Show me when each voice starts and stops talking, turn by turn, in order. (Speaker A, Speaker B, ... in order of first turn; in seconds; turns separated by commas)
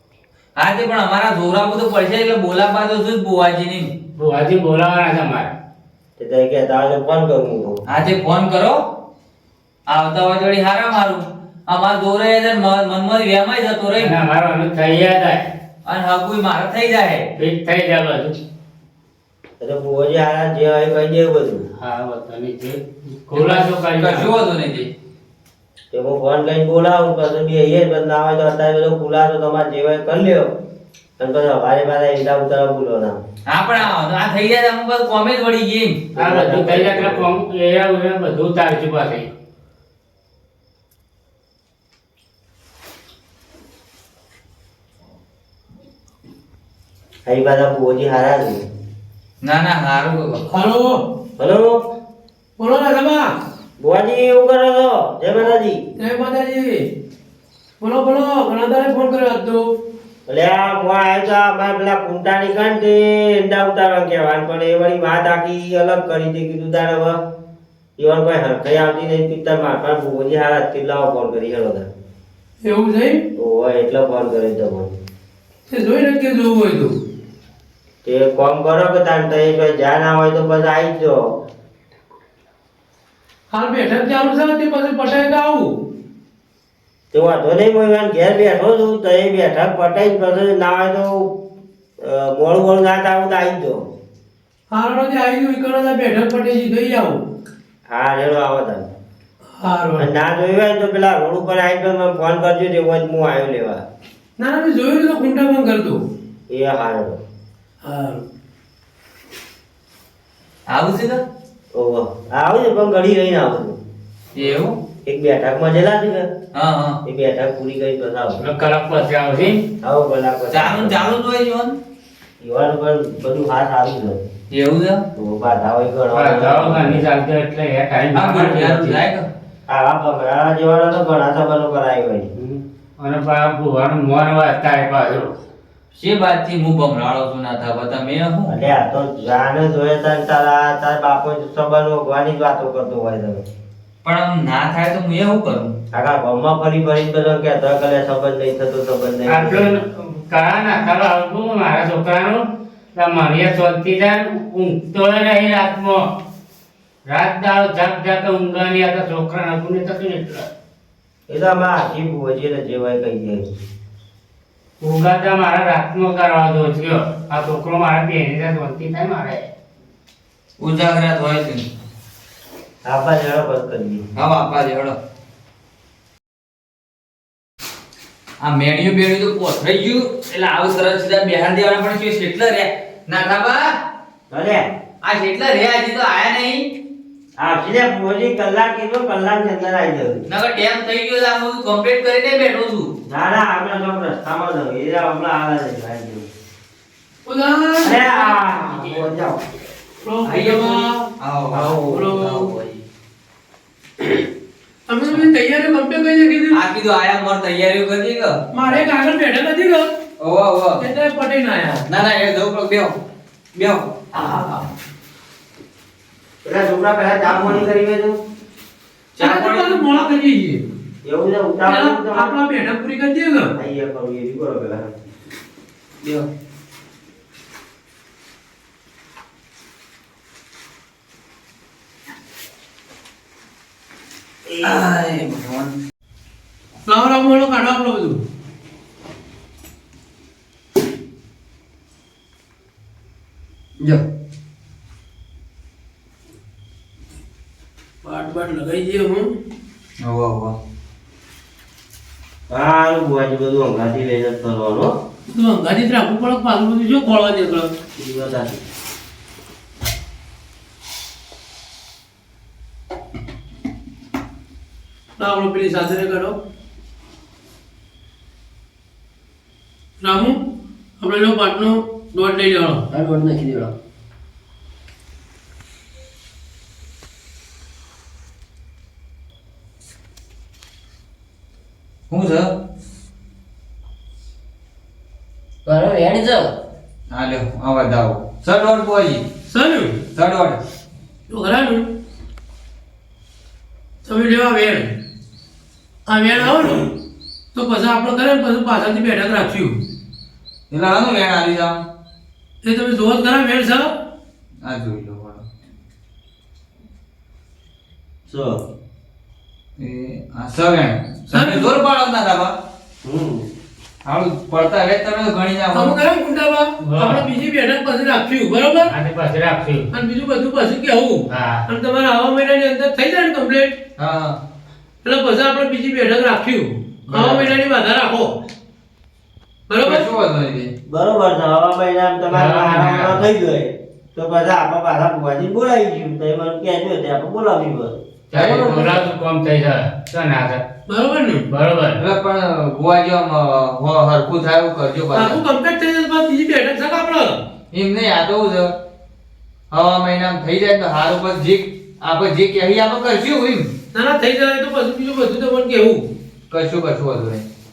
Speaker A: 0.6-3.9, Speaker B: 4.2-5.5, Speaker C: 6.2-7.8, Speaker A: 7.9-8.8, Speaker A: 9.9-14.1, Speaker B: 14.0-15.4, Speaker A: 15.8-17.2, Speaker B: 17.4-18.3, Speaker C: 19.6-21.6, Speaker B: 21.8-24.3, Speaker A: 23.3-24.9, Speaker C: 25.9-30.5, Speaker C: 31.2-33.2, Speaker A: 33.5-36.1, Speaker C: 36.1-37.2, Speaker B: 36.2-39.3, Speaker C: 47.2-48.6, Speaker A: 49.4-50.4, Speaker D: 50.5-50.9, Speaker C: 51.4-51.7, Speaker D: 52.6-53.2, Speaker C: 53.8-55.8, Speaker D: 56.0-56.7, Speaker D: 57.8-59.6, Speaker C: 60.3-67.2, Speaker C: 68.0-71.9, Speaker D: 72.6-73.2, Speaker C: 73.4-74.9, Speaker D: 75.7-76.9, Speaker C: 78.0-81.2, Speaker D: 83.5-85.7, Speaker C: 87.1-91.2, Speaker C: 92.0-93.8, Speaker D: 94.7-97.2, Speaker C: 97.9-98.8, Speaker D: 99.6-100.1, Speaker C: 100.0-103.8, Speaker D: 104.4-106.0, Speaker C: 106.5-107.2, Speaker D: 107.8-108.2, Speaker A: 110.7-111.2, Speaker C: 111.7-113.7, Speaker A: 114.3-114.7, Speaker C: 115.0-116.2, Speaker A: 116.5-117.0, Speaker C: 117.0-118.4, Speaker B: 118.4-119.6, Speaker C: 119.8-121.0, Speaker A: 120.5-121.7, Speaker C: 122.4-124.2, Speaker A: 124.5-125.0, Speaker C: 125.2-127.0, Speaker B: 126.1-129.0, Speaker A: 128.1-129.2, Speaker C: 129.7-132.3, Speaker B: 132.4-135.3, Speaker A: 135.9-138.5, Speaker C: 138.5-143.4, Speaker A: 144.0-145.7, Speaker C: 145.9-149.6, Speaker B: 149.3-152.4, Speaker B: 152.9-156.0, Speaker B: 157.1-160.5, Speaker C: 161.3-163.4, Speaker B: 164.8-169.5, Speaker A: 170.6-171.6, Speaker C: 172.8-174.0, Speaker A: 174.2-174.9, Speaker A: 178.4-183.6, Speaker C: 184.3-184.6, Speaker A: 185.0-186.7, Speaker C: 187.4-190.2, Speaker A: 190.3-192.9, Speaker C: 193.1-196.3, Speaker D: 197.2-198.4, Speaker C: 197.8-199.4, Speaker D: 200.0-201.0, Speaker A: 200.2-202.8, Speaker C: 201.5-202.5, Speaker D: 201.6-202.4, Speaker D: 204.9-206.6, Speaker A: 206.5-208.8, Speaker D: 208.5-209.9, Speaker A: 210.2-210.8, Speaker D: 210.8-211.8, Speaker A: 211.9-212.9, Speaker A: 213.5-214.6, Speaker C: 216.4-218.2, Speaker A: 219.2-219.9, Speaker D: 219.2-220.6, Speaker C: 221.0-222.4, Speaker D: 221.7-223.5, Speaker C: 223.6-224.9, Speaker A: 234.6-235.7, Speaker D: 236.8-238.2, Speaker D: 248.0-249.2, Speaker A: 250.0-250.6, Speaker C: 252.5-254.9, Speaker D: 255.3-257.7, Speaker C: 258.0-258.6, Speaker D: 265.2-266.4, Speaker D: 270.0-270.4, Speaker D: 271.0-272.8, Speaker A: 282.1-282.5, Speaker A: 287.1-289.2, Speaker D: 289.5-290.0, Speaker A: 290.1-290.6, Speaker D: 291.3-291.9, Speaker D: 294.0-294.9, Speaker D: 296.1-296.9, Speaker D: 297.5-299.8, Speaker A: 300.7-301.8, Speaker D: 302.6-303.9, Speaker A: 304.6-305.4, Speaker C: 308.3-308.6, Speaker A: 309.8-312.5, Speaker D: 311.3-311.7, Speaker C: 313.0-313.5, Speaker A: 314.0-316.0, Speaker D: 315.7-318.9, Speaker B: 316.8-317.2, Speaker B: 318.8-319.9, Speaker D: 319.9-323.7, Speaker B: 321.3-321.6, Speaker A: 324.0-324.4, Speaker D: 325.0-328.3, Speaker A: 327.1-327.5, Speaker D: 329.7-330.1, Speaker A: 329.8-330.7, Speaker C: 330.9-337.9, Speaker B: 332.3-333.2, Speaker B: 338.3-340.6, Speaker A: 338.3-339.0, Speaker D: 340.9-341.4, Speaker B: 341.5-342.0, Speaker A: 342.0-345.4, Speaker D: 345.1-347.4, Speaker A: 347.7-348.7, Speaker A: 349.7-353.7, Speaker D: 353.9-356.0, Speaker A: 356.5-357.4